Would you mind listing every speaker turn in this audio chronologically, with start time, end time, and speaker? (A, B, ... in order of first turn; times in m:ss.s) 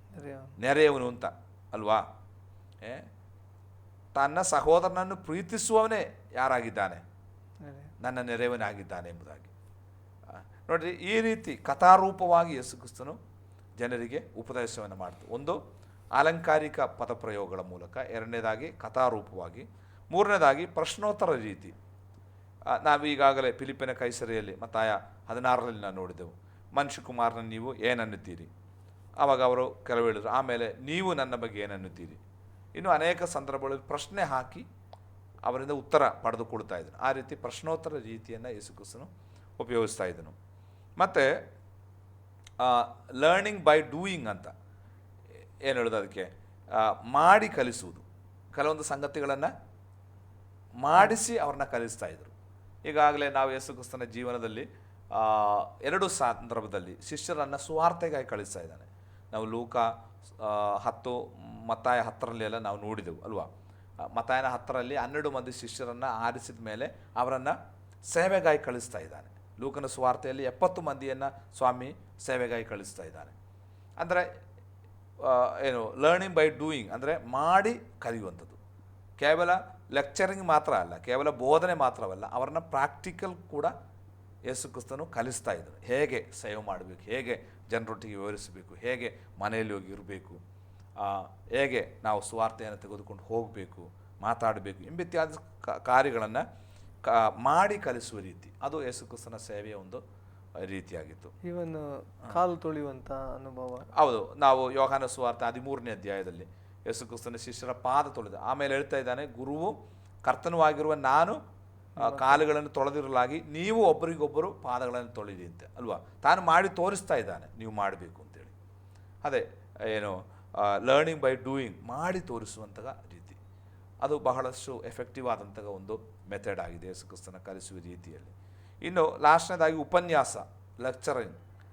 0:00.2-0:00.6 A
0:00.6-0:02.1 B
0:02.8-0:03.1 B
0:04.2-0:07.0 B
0:07.6-0:07.9 A
0:08.0-0:09.5 B
0:10.3-0:13.2 B
0:13.8-0:15.6 B
0:16.2-0:21.8 B
0:22.7-0:28.5 B
0:29.2-0:32.2 B
0:32.8-0:34.7 B
0:35.5-0:40.4 B
0:41.0-0:41.4 B
0:42.6-0:44.5 B
0:45.6-0:49.5 B
0:50.8-0:52.3 B
0:52.8-1:13.3 B
1:14.0-1:14.3 B
1:15.2-1:18.6 B
1:19.2-1:23.7 B
1:24.5-1:30.4 B
1:31.0-1:36.4 B
1:37.0-1:40.0 B
1:40.6-1:41.3 B
1:41.4-1:43.9 A
1:43.9-1:51.4 B
1:52.0-1:52.4 A
1:52.0-1:58.5 B
1:59.2-2:03.4 B
2:04.0-2:11.4 B